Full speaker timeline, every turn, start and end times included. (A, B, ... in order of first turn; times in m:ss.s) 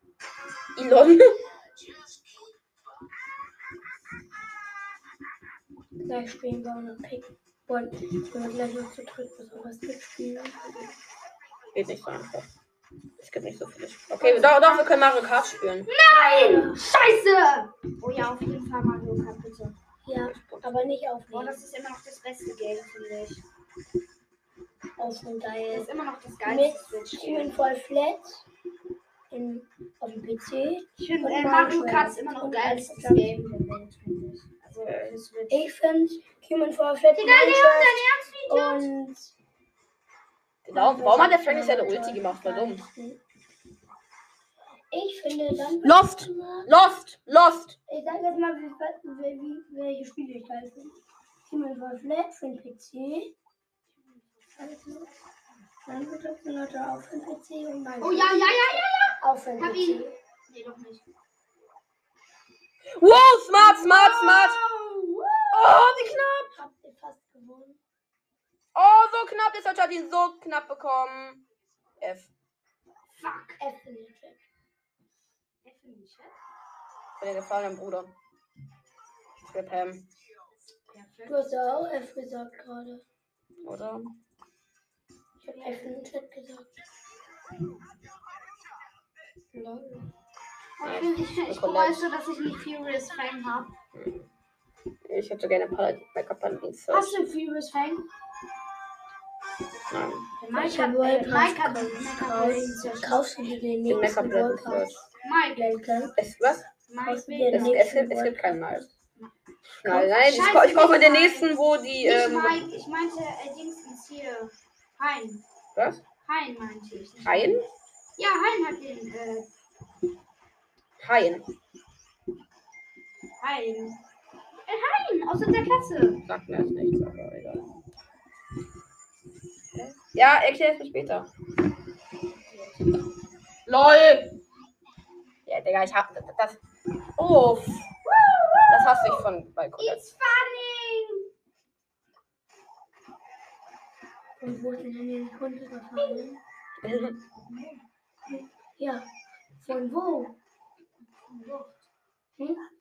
0:00.8-0:01.4 A
0:06.0-0:10.9 B
0:11.7-0:12.5 A
0:13.2-0:15.9 A
0:14.2-0:14.9 C
0:15.9-0:19.8 C
0:16.1-0:16.8 B
0:20.0-0:21.6 B
0:20.3-0:20.7 A
0:21.3-0:23.4 C
0:25.0-0:25.9 B
0:25.7-0:27.7 C
0:26.4-0:28.5 B
0:29.3-0:33.3 B
0:31.0-0:35.7 C
0:34.8-0:35.1 A
0:35.5-0:39.3 B
0:37.2-0:38.9 C
0:40.6-0:42.8 A
0:40.7-0:43.2 B
0:44.9-0:46.7 B
0:45.8-0:47.8 A
0:47.9-0:53.3 B
0:54.1-0:55.1 C
0:54.6-0:55.1 B
0:55.9-1:00.2 B
0:58.0-1:01.1 C
1:03.0-1:04.6 A
1:03.5-1:05.8 C
1:05.5-1:06.5 A
1:06.4-1:07.8 B
1:08.8-1:11.4 A
1:12.0-1:12.3 A
1:13.2-1:13.6 C
1:13.6-1:14.4 B
1:15.6-1:16.4 C
1:17.2-1:18.1 A
1:19.5-1:20.1 A
1:20.9-1:21.8 C
1:21.3-1:23.0 B
1:23.6-1:24.1 A
1:25.4-1:26.7 B
1:25.5-1:26.0 C
1:29.5-1:30.1 B
1:30.8-1:33.8 C
1:30.8-1:32.1 A
1:33.9-1:34.3 A
1:35.1-1:37.3 A
1:36.9-1:38.0 C
1:39.9-1:40.3 A
1:40.4-1:43.4 C
1:40.5-1:45.0 B
1:43.9-1:45.0 A
1:45.2-1:46.1 C
1:45.6-1:46.1 B
1:46.2-1:46.6 A
1:46.9-1:47.9 C
1:47.0-1:48.6 B
1:47.5-1:48.9 A
1:49.1-1:49.3 C
1:49.8-1:52.6 A
1:49.8-1:50.1 B
1:50.2-1:55.4 C
1:55.8-1:56.0 A
1:56.2-1:57.6 C
1:57.2-1:57.7 A
1:58.2-1:59.5 C
2:01.0-2:01.5 A
2:03.4-2:04.0 C
2:04.7-2:06.2 C
2:06.3-2:07.7 A
2:09.7-2:11.3 A
2:12.4-2:13.0 C
2:13.7-2:14.4 A
2:15.5-2:16.6 A
2:17.2-2:17.9 A
2:18.1-2:19.2 C
2:18.7-2:20.2 A
2:19.8-2:21.3 C
2:24.4-2:26.4 B
2:26.8-2:27.2 A
2:27.4-2:27.8 C
2:28.3-2:30.4 B
2:31.3-2:31.9 C
2:32.4-2:32.6 B